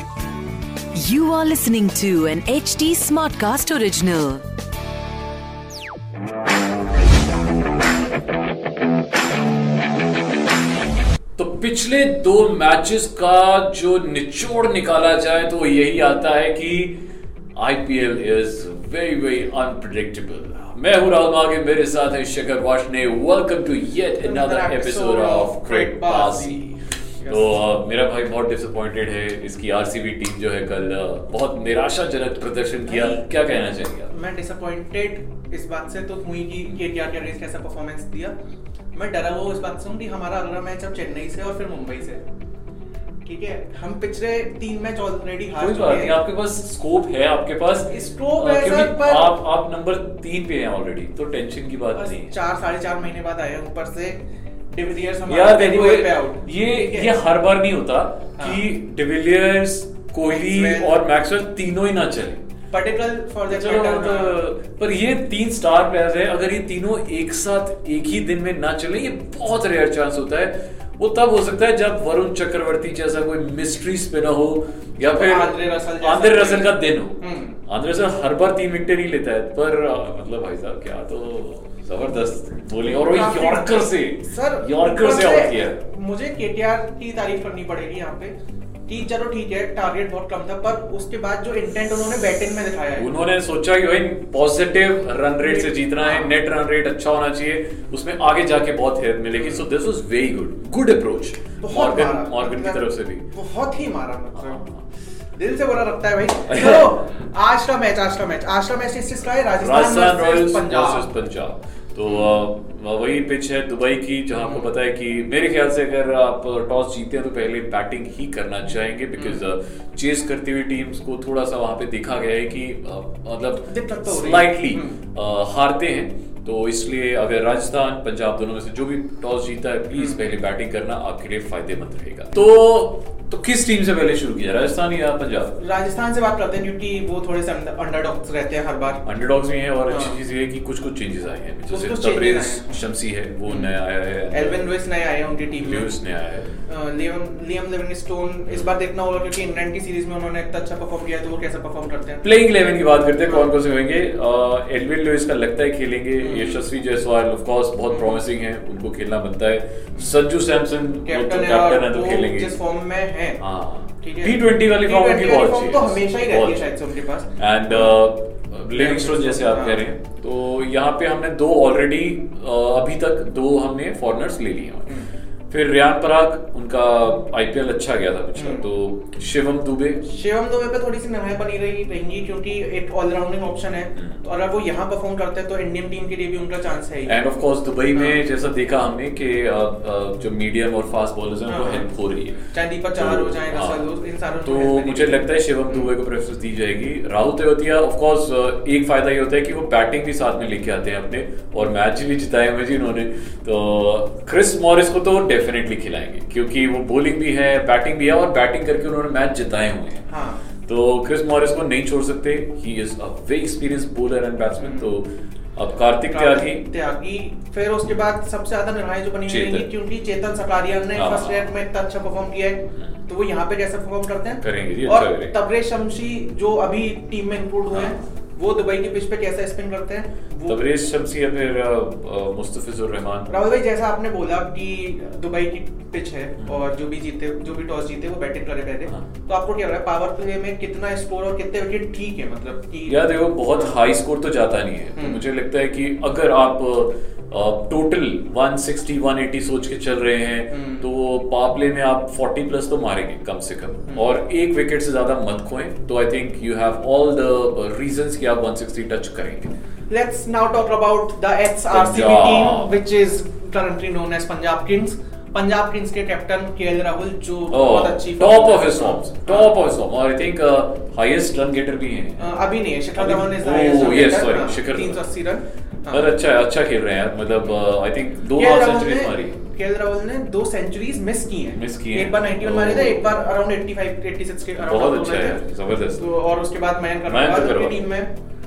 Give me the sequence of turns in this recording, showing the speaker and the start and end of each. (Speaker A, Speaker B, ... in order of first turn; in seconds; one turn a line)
Speaker A: 0.9-4.5
Speaker B: 11.4-17.0
Speaker B: 17.6-34.1
Speaker C: 24.2-26.7
Speaker C: 27.2-27.5
Speaker C: 32.9-33.2
Speaker C: 34.1-38.4
Speaker C: 39.0-42.2
Speaker C: 43.2-46.2
Speaker B: 45.6-52.3
Speaker C: 47.9-49.3
Speaker C: 51.9-54.2
Speaker C: 54.7-57.1
Speaker B: 55.3-62.4
Speaker C: 60.3-60.9
Speaker C: 62.7-64.4
Speaker B: 63.5-85.8
Speaker C: 75.1-77.6
Speaker C: 82.9-88.3
Speaker C: 88.9-93.1
Speaker B: 93.0-103.2
Speaker C: 95.4-96.3
Speaker C: 101.6-104.6
Speaker B: 104.5-104.8
Speaker C: 105.4-111.1
Speaker B: 106.5-106.9
Speaker B: 109.5-135.5
Speaker C: 112.1-112.3
Speaker C: 114.4-114.7
Speaker C: 119.2-119.5
Speaker C: 123.6-125.0
Speaker C: 129.9-130.2
Speaker C: 135.6-139.0
Speaker B: 139.0-144.6
Speaker C: 139.9-140.2
Speaker C: 141.7-142.7
Speaker C: 143.5-143.7
Speaker C: 144.3-145.9
Speaker B: 145.6-146.5
Speaker C: 146.7-152.3
Speaker B: 152.2-162.5
Speaker C: 153.2-153.5
Speaker C: 156.2-156.7
Speaker C: 157.9-158.2
Speaker C: 160.0-160.2
Speaker C: 161.1-163.4
Speaker B: 163.4-166.7
Speaker C: 164.0-168.0
Speaker B: 167.4-180.0
Speaker C: 168.7-169.8
Speaker C: 178.4-178.7
Speaker C: 180.0-187.2
Speaker B: 187.1-193.9
Speaker C: 187.9-188.2
Speaker C: 191.5-191.9
Speaker C: 192.5-195.9
Speaker B: 194.4-210.1
Speaker C: 210.1-210.4
Speaker B: 210.7-216.7
Speaker C: 214.6-215.0
Speaker C: 216.1-230.6
Speaker B: 219.3-219.7
Speaker B: 220.9-221.5
Speaker B: 224.4-225.3
Speaker B: 227.7-228.0
Speaker B: 230.5-233.3
Speaker C: 233.3-243.8
Speaker B: 242.9-259.5
Speaker C: 245.0-245.2
Speaker C: 250.5-250.9
Speaker C: 259.9-269.6
Speaker B: 261.7-262.8
Speaker B: 267.5-272.4
Speaker C: 272.2-276.1
Speaker B: 273.0-275.0
Speaker B: 275.9-279.4
Speaker C: 278.3-285.4
Speaker B: 281.5-283.1
Speaker B: 284.6-286.0
Speaker C: 286.0-288.1
Speaker B: 287.1-287.9